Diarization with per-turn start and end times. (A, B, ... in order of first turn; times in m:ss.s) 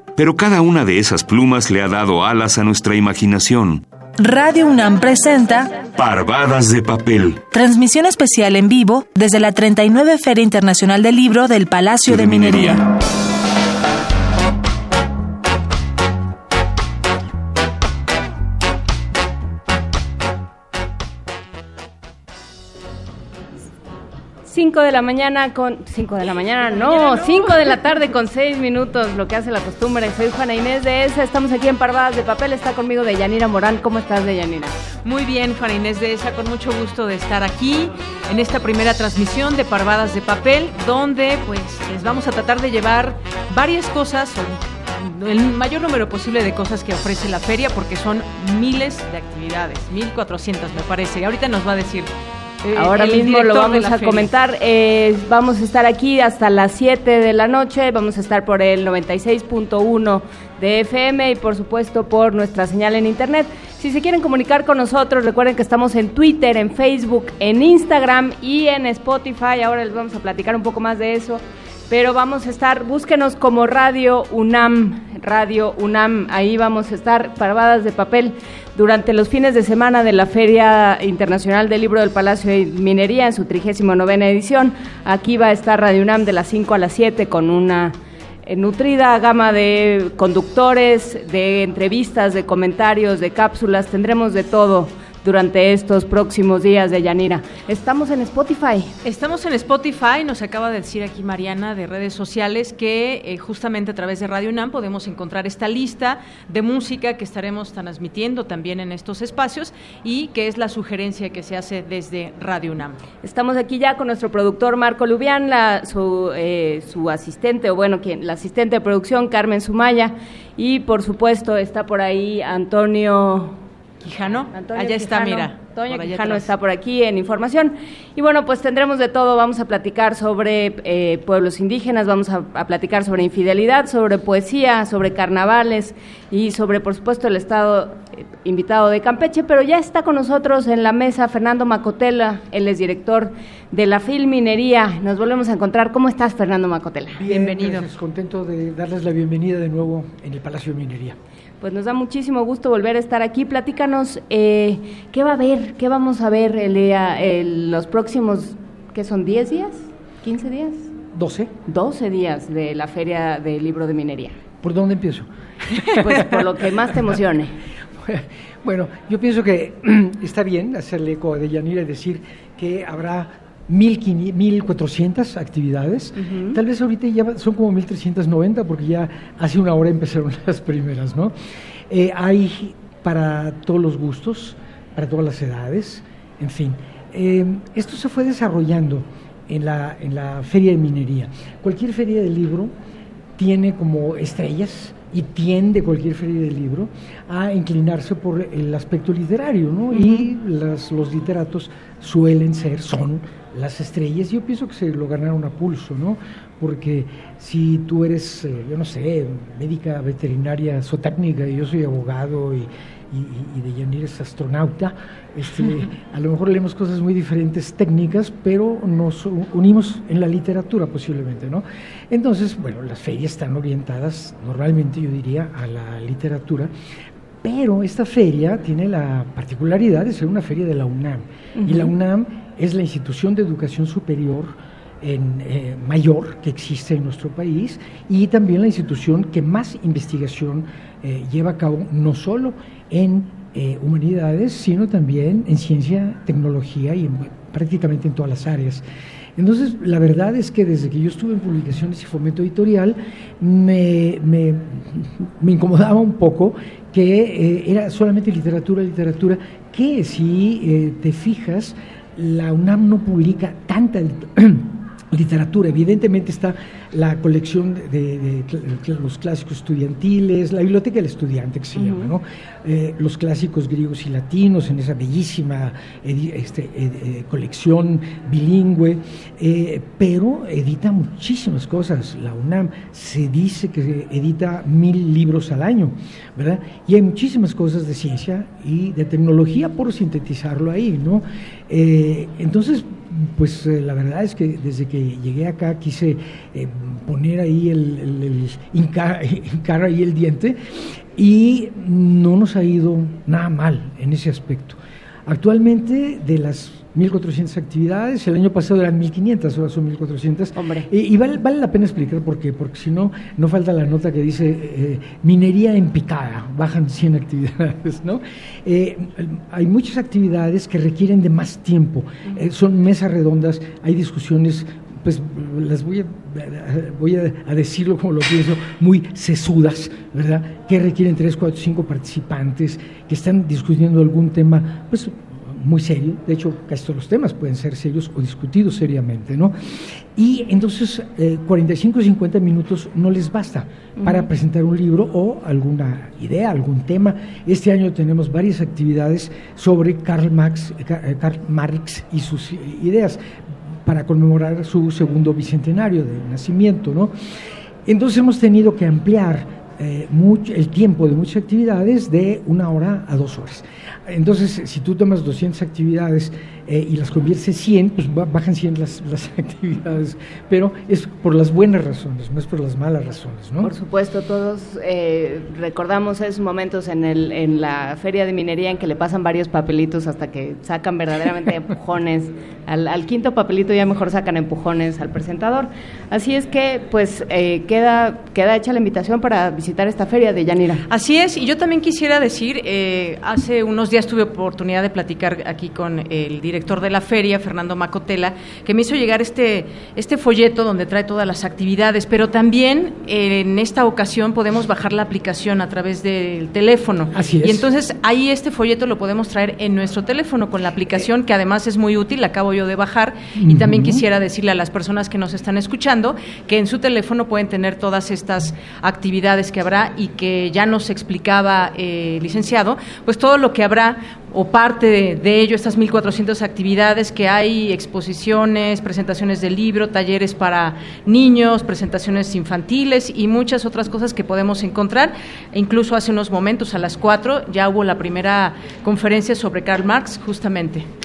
0:00.2-0:03.8 A
0:04.2-0:05.7 B
0:06.0-0:07.5 A
0:07.5-0:12.8 B
0:12.1-0:12.8 A
0:24.5-0:34.8 C
0:26.6-0:28.0 D
0:35.0-0:52.1 D
0:52.6-0:54.3 D
0:52.8-1:39.0 C
1:39.0-1:53.0 D
1:53.2-2:03.6 C
2:04.0-2:06.5 D
2:04.5-2:27.2 C
2:27.2-2:31.2 E
2:27.3-2:27.9 D
2:31.6-2:40.9 C
2:41.1-2:41.5 E
2:41.7-2:44.4 C
2:44.6-2:47.2 E
2:46.0-2:47.5 C
2:47.9-3:01.3 E
2:56.2-2:56.6 C
3:01.9-3:12.7 E
3:13.4-3:46.7 E
3:19.9-3:20.2 C
3:47.4-4:08.8 E
3:51.6-3:51.9 C
4:09.4-5:57.1 E
4:31.8-4:32.1 C
5:10.6-5:10.9 C
5:44.0-5:44.3 C
5:57.8-6:13.7 E
6:13.6-6:30.8 C
6:30.9-7:20.9 D
6:47.1-6:47.7 E
6:53.4-6:54.0 E